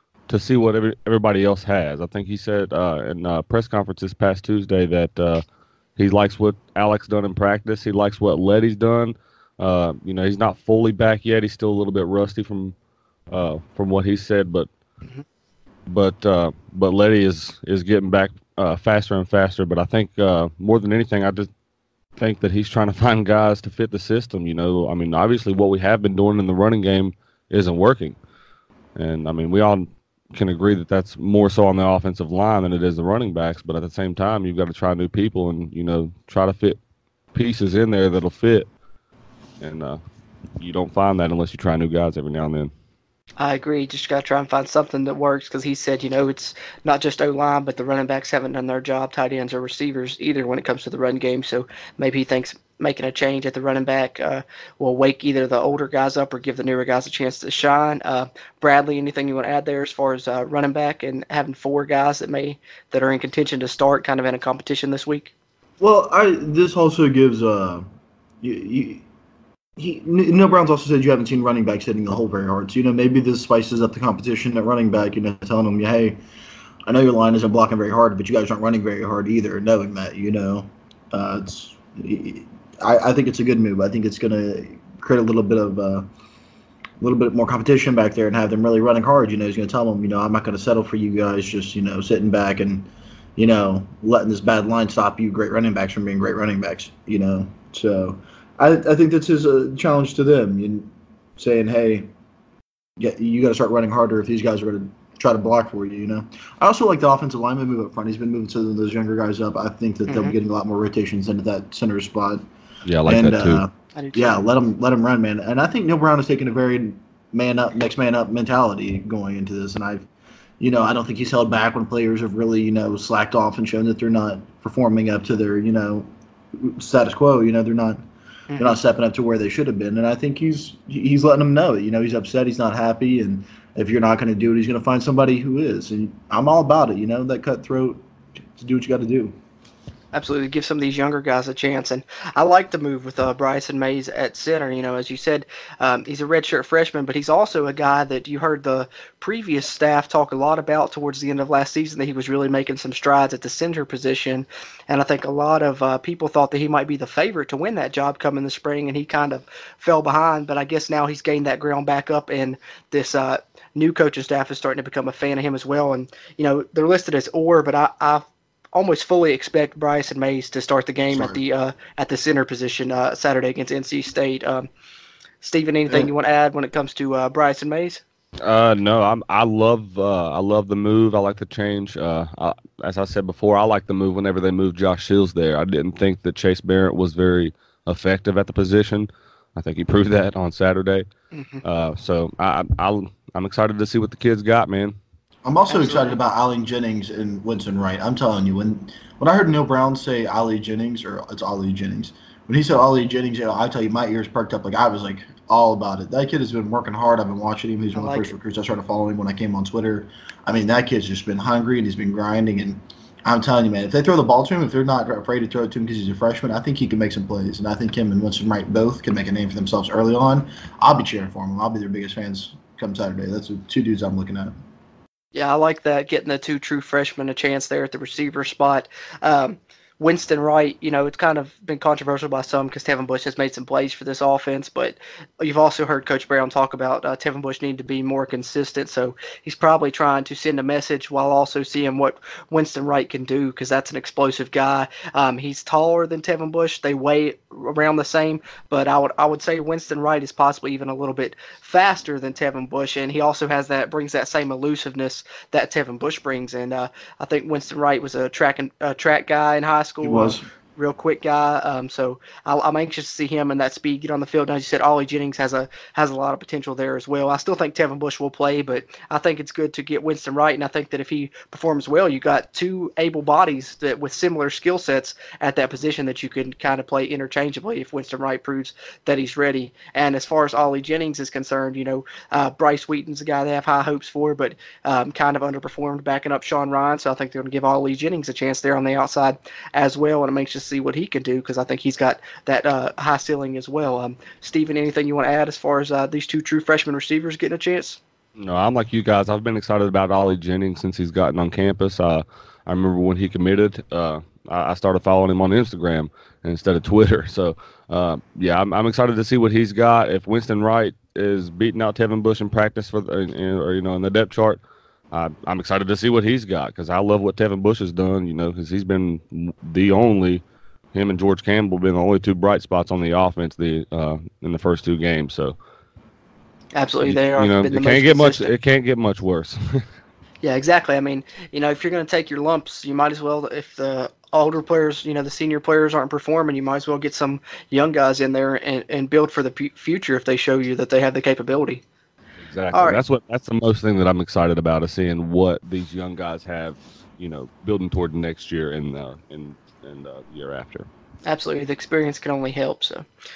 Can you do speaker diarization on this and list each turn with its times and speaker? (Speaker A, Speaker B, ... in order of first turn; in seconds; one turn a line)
Speaker A: 0.3-5.4
Speaker A: 6.0-12.7
Speaker A: 13.3-14.7
Speaker A: 15.9-21.5
Speaker A: 22.2-28.2
Speaker A: 28.9-36.8
Speaker A: 37.3-38.7
Speaker A: 39.6-40.0
Speaker A: 40.6-42.7
Speaker B: 43.4-65.3
Speaker C: 65.8-67.9
Speaker C: 68.4-69.0
Speaker C: 69.8-76.2
Speaker C: 76.9-86.1
Speaker C: 87.0-102.1
Speaker C: 103.0-112.4
Speaker B: 110.1-110.3
Speaker A: 112.8-113.6
Speaker C: 113.0-120.1
Speaker B: 113.9-114.5
Speaker C: 120.6-128.0
Speaker B: 128.5-128.8
Speaker C: 128.6-138.0
Speaker C: 138.6-139.3
Speaker B: 140.1-174.7
Speaker C: 171.1-171.4
Speaker B: 175.4-178.0
Speaker A: 178.4-191.1
Speaker B: 191.3-191.6
Speaker A: 191.6-194.9
Speaker C: 195.4-224.5
Speaker B: 195.7-196.2
Speaker B: 207.9-208.3
Speaker B: 225.3-298.0
Speaker C: 260.0-260.4
Speaker A: 298.4-314.6
Speaker A: 315.1-320.4
Speaker A: 320.9-325.6
Speaker B: 326.7-328.5
Speaker A: 327.0-329.8
Speaker B: 330.4-341.8
Speaker A: 342.4-350.9
Speaker B: 342.7-343.0
Speaker B: 351.2-353.1